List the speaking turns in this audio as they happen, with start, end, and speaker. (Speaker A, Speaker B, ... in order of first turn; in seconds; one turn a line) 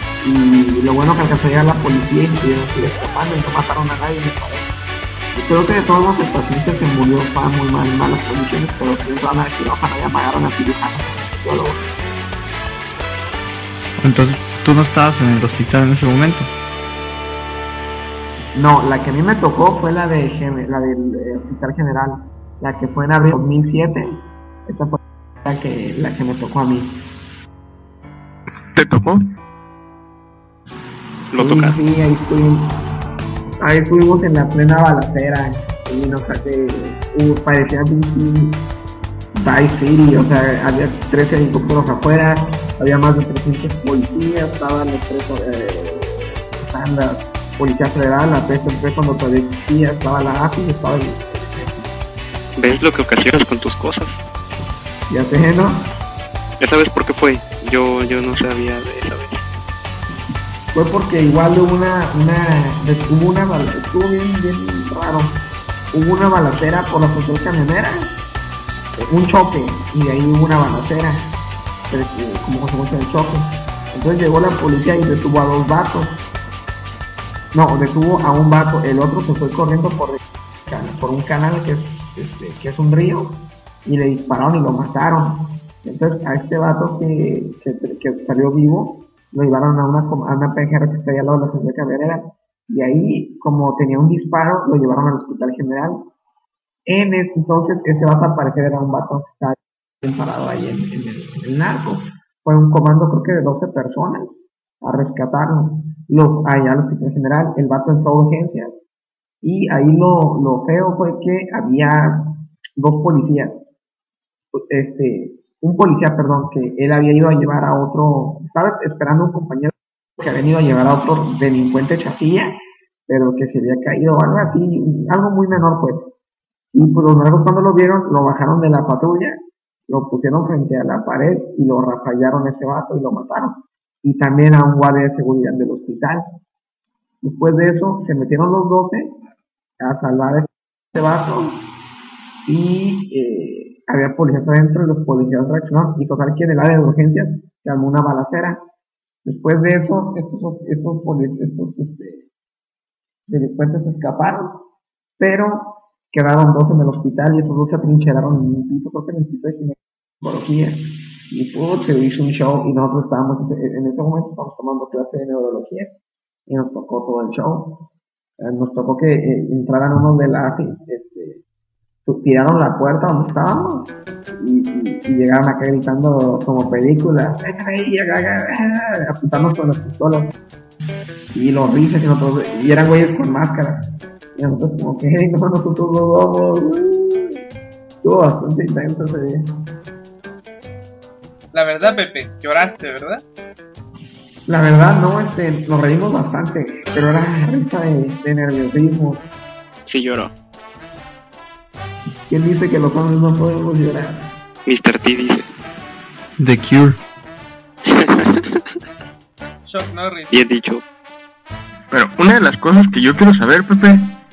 Speaker A: 0.2-4.7
Speaker A: 5.3-11.8
Speaker B: 14.0-16.5
Speaker A: 18.5-27.0
Speaker C: 28.7-29.2
Speaker D: 31.3-31.8
Speaker A: 31.4-32.8
Speaker A: 33.6-38.7
Speaker A: 39.3-51.8
Speaker D: 52.6-54.2
Speaker A: 55.1-55.9
Speaker D: 56.6-59.4
Speaker A: 60.7-68.1
Speaker A: 69.0-71.4
Speaker A: 71.9-76.2
Speaker A: 77.5-96.1
Speaker A: 96.9-108.7
Speaker A: 109.4-113.6
Speaker A: 114.5-122.5
Speaker A: 123.1-126.1
Speaker A: 126.7-136.4
Speaker A: 137.2-139.2
Speaker A: 139.8-141.6
Speaker A: 142.4-148.6
Speaker A: 149.2-152.2
Speaker A: 153.3-154.6
Speaker A: 155.2-165.9
Speaker A: 166.5-167.8
Speaker A: 168.4-171.4
Speaker A: 172.1-180.3
Speaker A: 181.3-183.8
Speaker A: 184.3-187.4
Speaker A: 188.0-189.5
Speaker E: 191.5-193.2
Speaker A: 194.5-199.3
Speaker D: 199.8-200.3
Speaker A: 202.3-204.3
Speaker D: 204.7-205.5
Speaker B: 206.4-207.0
Speaker D: 207.8-208.6
Speaker E: 209.7-210.4
Speaker D: 210.3-210.8
Speaker C: 211.9-214.1